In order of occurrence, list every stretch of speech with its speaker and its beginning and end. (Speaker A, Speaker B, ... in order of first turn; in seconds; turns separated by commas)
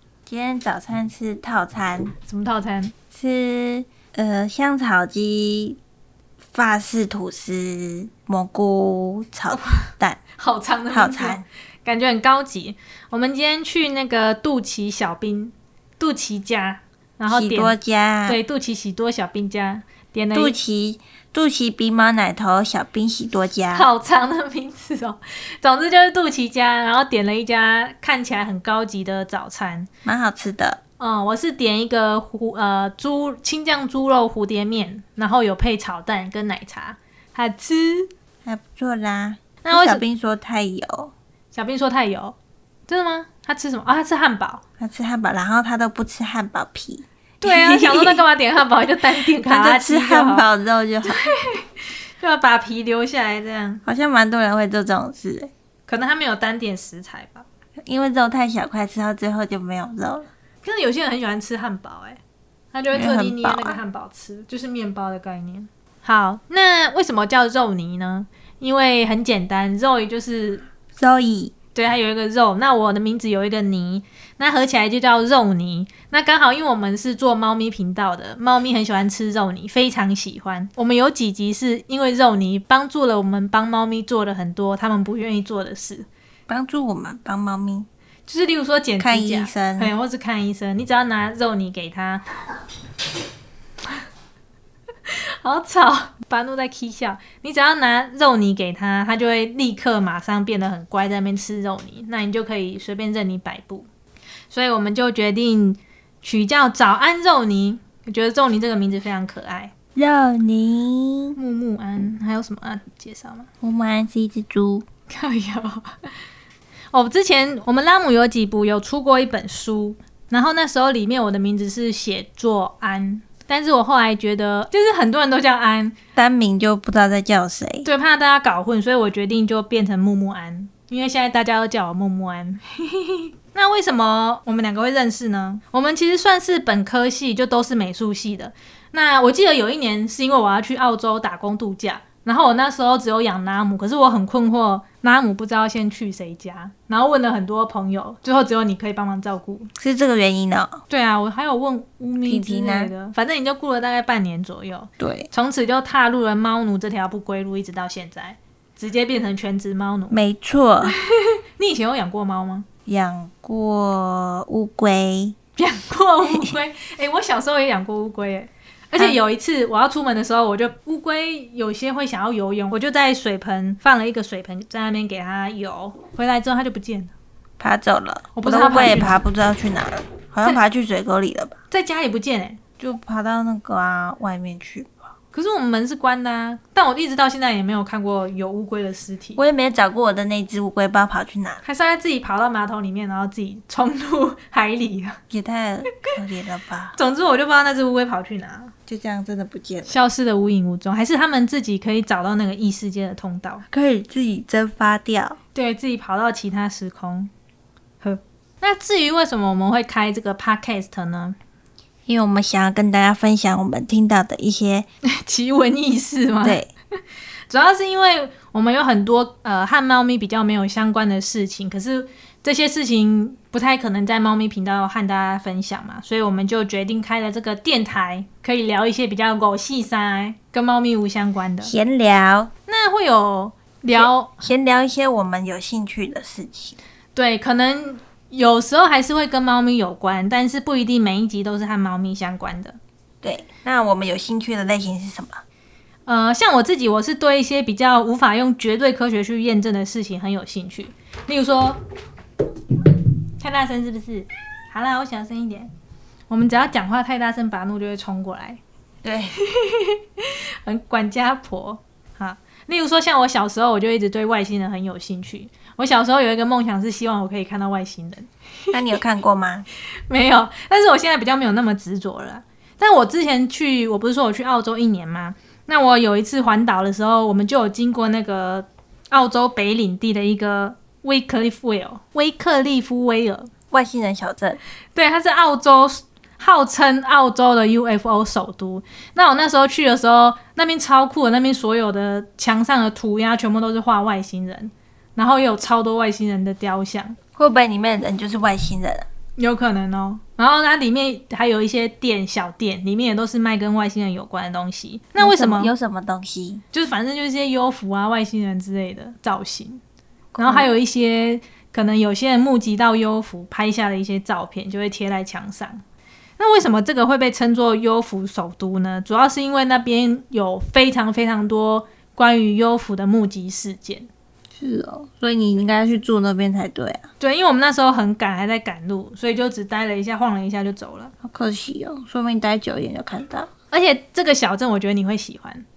Speaker A: 0.2-2.1, Speaker B: 2.3-2.9, Speaker A: 3.1-5.8, Speaker A: 6.5-10.2, Speaker B: 9.5-17.7, Speaker A: 10.9-11.4, Speaker A: 17.3-18.4, Speaker B: 18.2-20.5, Speaker A: 20.3-23.9, Speaker B: 23.7-29.9, Speaker A: 30.0-30.8, Speaker B: 31.0-38.1, Speaker A: 38.4-41.1, Speaker B: 39.6-40.0, Speaker B: 41.5-42.3, Speaker B: 42.9-44.6, Speaker A: 44.8-48.2, Speaker B: 47.4-50.5, Speaker A: 49.2-51.2, Speaker B: 51.1-53.8, Speaker A: 53.8-55.5, Speaker B: 55.9-57.5, Speaker A: 57.8-60.3, Speaker B: 60.6-62.2, Speaker B: 62.7-70.6, Speaker A: 62.9-63.8, Speaker A: 71.0-71.5, Speaker B: 71.7-86.1, Speaker A: 86.5-87.9, Speaker B: 88.3-92.2, Speaker A: 89.0-89.9, Speaker B: 95.1-103.9, Speaker B: 104.5-109.7, Speaker A: 109.9-111.4, Speaker B: 111.3-113.5, Speaker A: 113.6-114.8, Speaker B: 115.1-115.9, Speaker B: 116.9-125.9, Speaker A: 126.2-127.8, Speaker B: 127.8-149.7, Speaker A: 149.8-150.8, Speaker B: 150.9-160.2, Speaker A: 152.2-152.9, Speaker A: 155.0-155.3, Speaker A: 160.1-160.9, Speaker B: 160.8-162.7, Speaker A: 162.9-165.3, Speaker B: 165.6-177.1, Speaker A: 177.6-181.6, Speaker B: 178.3-179.2, Speaker B: 181.7-182.6, Speaker A: 182.8-185.0, Speaker B: 185.3-189.4, Speaker A: 189.4-191.6, Speaker B: 191.6-195.2, Speaker A: 195.3-196.9, Speaker B: 196.9-198.7, Speaker A: 198.9-200.0, Speaker B: 199.9-203.6, Speaker A: 203.7-205.4, Speaker B: 205.5-207.3, Speaker B: 208.0-211.3, Speaker A: 212.1-214.9, Speaker B: 215.0-216.6, Speaker A: 216.4-216.7, Speaker B: 217.5-231.7, Speaker A: 231.6-232.5, Speaker B: 232.7-234.3, Speaker A: 233.9-236.8, Speaker B: 237.1-242.8, Speaker A: 243.2-245.4, Speaker B: 246.1-251.8, Speaker B: 253.4-255.7, Speaker B: 256.3-258.6, Speaker A: 259.0-259.3, Speaker B: 259.4-268.3, Speaker A: 268.7-269.6, Speaker B: 270.1-283.5, Speaker A: 283.7-284.6, Speaker B: 284.9-297.2, Speaker A: 297.4-299.1, Speaker B: 299.4-305.7, Speaker A: 305.2-306.6, Speaker B: 306.7-309.8, Speaker A: 310.3-310.7, Speaker B: 310.4-315.8, Speaker B: 316.4-324.1, Speaker A: 324.5-327.1, Speaker B: 327.2-331.1, Speaker A: 331.2-333.5, Speaker B: 333.7-335.6